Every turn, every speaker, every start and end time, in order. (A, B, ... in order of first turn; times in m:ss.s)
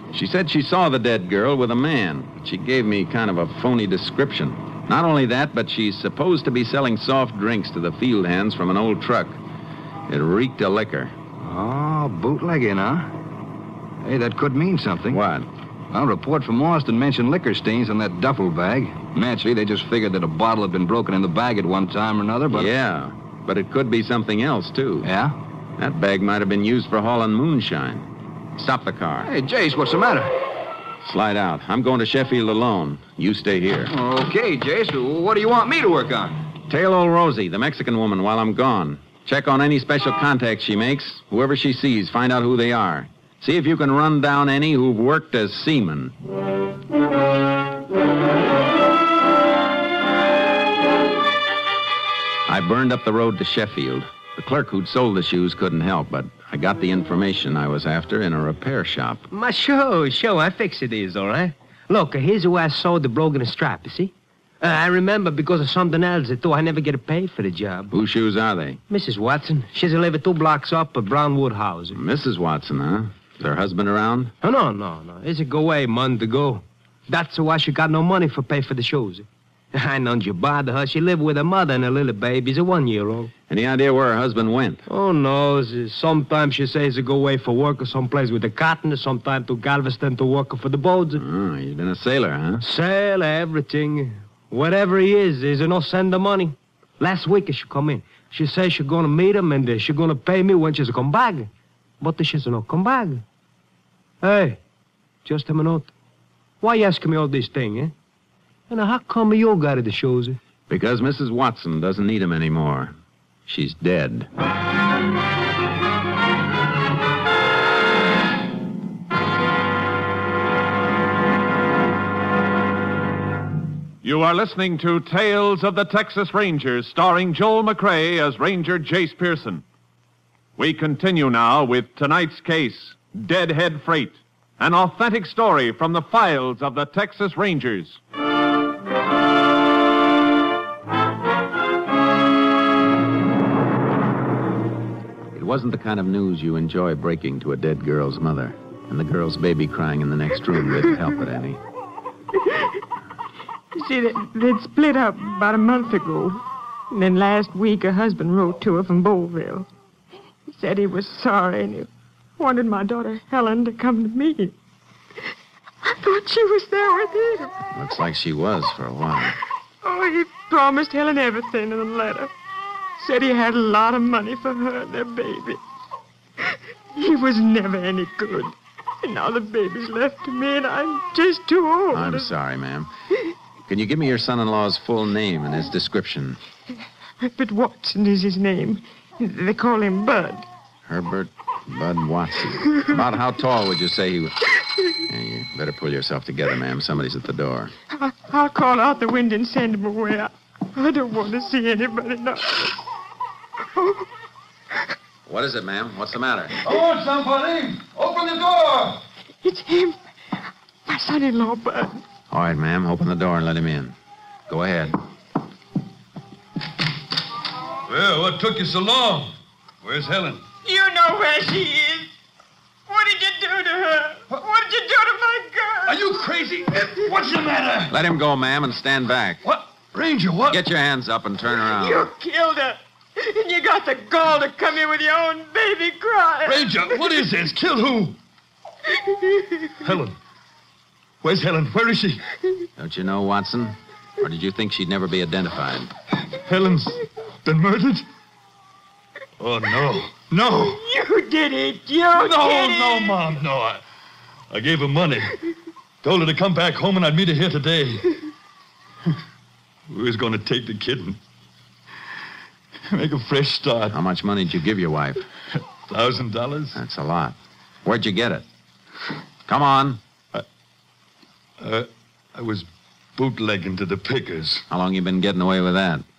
0:00.1-0:09.4 A
0:10.1-0:11.1 A
0:11.4-0:13.1 B
0:14.0-0:15.2 B
0:15.1-0:15.5 A
0:15.9-0:22.7 B
0:22.5-0:25.1 A
0:25.0-0:25.3 B
0:25.8-0:29.3 A
0:29.2-0:30.3 B
0:31.0-0:33.9 A
0:33.9-0:36.5 B
0:36.7-0:46.2 A
0:52.4-0:59.2 A
0:59.3-1:07.9 C
1:07.9-1:08.8 A
1:08.9-1:12.0 C
1:11.9-1:14.3 A
1:14.4-1:23.3 C
1:23.5-1:24.8 A
1:24.9-1:31.2 C
1:31.2-1:32.6 A
1:32.6-1:43.2 C
1:44.2-1:44.6 C
1:45.2-1:45.9 C
1:46.6-1:47.9 C
1:48.7-1:50.4 C
1:50.7-1:52.9 A
1:53.5-1:54.3 A
2:04.0-2:09.6 D
2:10.6-2:18.0 D
2:25.3-2:31.6 A
2:33.7-2:39.7 E
2:40.5-2:44.5 E
2:45.8-2:47.6 E
2:47.7-2:49.4 A
2:49.8-2:52.3 E
2:53.0-2:55.6 E
2:56.4-3:02.3 E
3:01.9-3:02.9 A
3:03.7-3:06.4 A
3:07.2-3:10.4 E
3:10.9-3:14.4 A
3:15.0-3:17.7 A
3:17.9-3:22.8 E
3:23.7-3:24.1 E
3:25.3-3:26.6 A
3:26.6-3:29.0 F
3:29.4-3:30.0 E
3:30.8-3:32.0 E
3:32.3-3:34.0 A
3:34.5-3:35.0 A
3:37.9-3:40.4 F
3:40.6-3:42.1 E
3:42.9-3:47.0 E
3:45.9-3:48.0 F
3:47.9-3:49.4 A
3:49.4-3:50.6 F
3:50.5-3:52.1 A
3:51.6-3:57.1 E
3:56.4-3:58.2 F
3:59.2-3:59.6 E
3:59.8-4:00.2 F
4:01.2-4:02.2 F
4:02.8-4:05.9 A
4:06.4-4:08.1 F
4:09.4-4:10.8 F
4:10.5-4:13.3 E
4:12.1-4:13.8 F
4:14.5-4:15.4 F
4:16.0-4:18.0 F
4:19.9-4:21.2 F
4:22.9-4:24.0 F
4:23.9-4:25.2 A
4:25.8-4:26.8 F
4:26.7-4:28.4 A
4:29.5-4:30.0 A
4:31.6-4:34.7 F
4:34.7-4:36.0 A